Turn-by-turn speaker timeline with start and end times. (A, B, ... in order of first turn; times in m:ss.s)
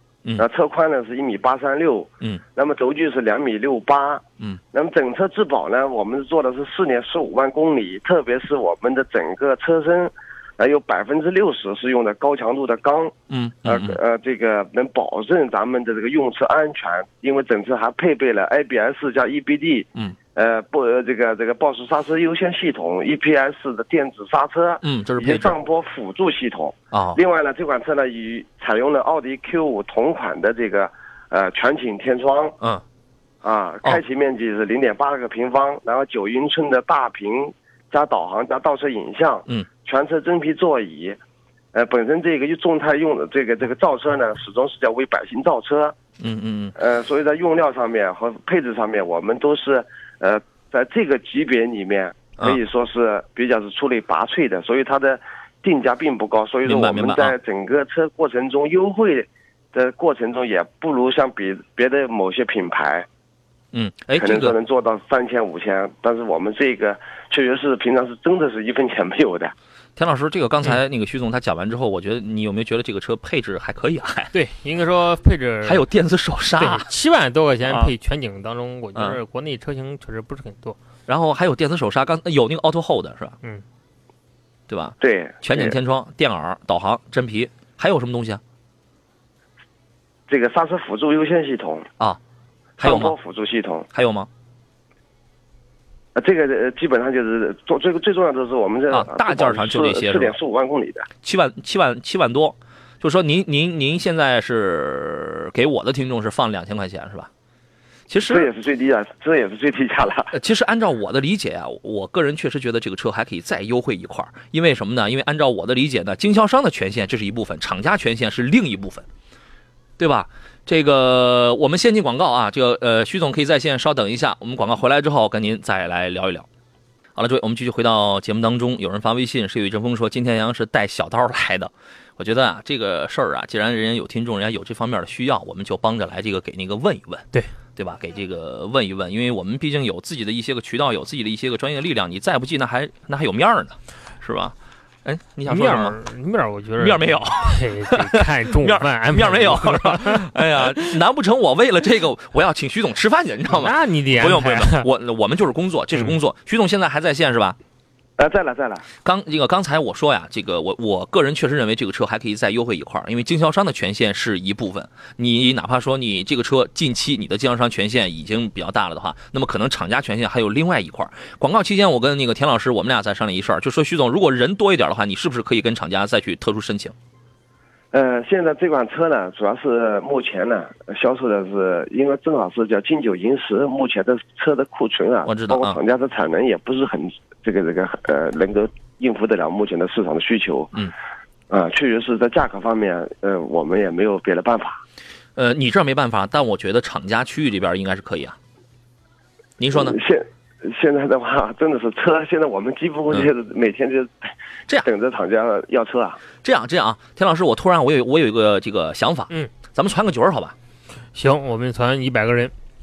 0:00.4-0:32.6 A
0:13.3-0:14.0 B
0:24.8-0:25.6 B
0:26.9-0:27.2 B
0:33.4-0:41.2 A
0:41.7-0:46.0 A
0:46.2-0:46.8 B
0:46.8-1:03.1 A
0:56.6-0:57.4 B
1:03.7-1:04.6 B
1:04.2-1:09.5 A
1:10.0-1:14.3 B
1:14.3-1:15.8 C
1:15.6-1:16.9 B
1:16.6-1:20.8 C
1:17.7-1:17.9 B
1:21.1-1:23.4 B
1:24.7-1:28.4 B
1:25.0-1:25.8 A
1:30.3-1:31.9 A
1:32.8-1:33.9 A
1:32.8-1:33.2 B
1:33.9-1:34.3 B
1:36.2-1:41.1 A
1:38.9-1:40.4 B
1:41.2-1:47.3 B
1:48.1-1:48.5 B
1:48.3-1:50.3 A
1:50.3-1:59.1 B
2:00.0-2:06.5 B
2:07.2-2:24.5 B
2:25.0-2:26.0 B
2:25.4-2:30.9 C
2:26.8-2:37.6 B
2:33.5-2:34.9 C
2:38.2-2:38.9 A
2:39.0-2:56.9 B
2:57.9-3:10.7 A
3:05.3-3:05.8 B
3:11.5-3:14.8 A
3:15.4-3:18.4 B
3:19.6-3:20.0 B
3:19.7-3:24.3 A
3:24.8-3:26.2 A
3:26.4-3:30.6 B
3:31.2-3:32.5 C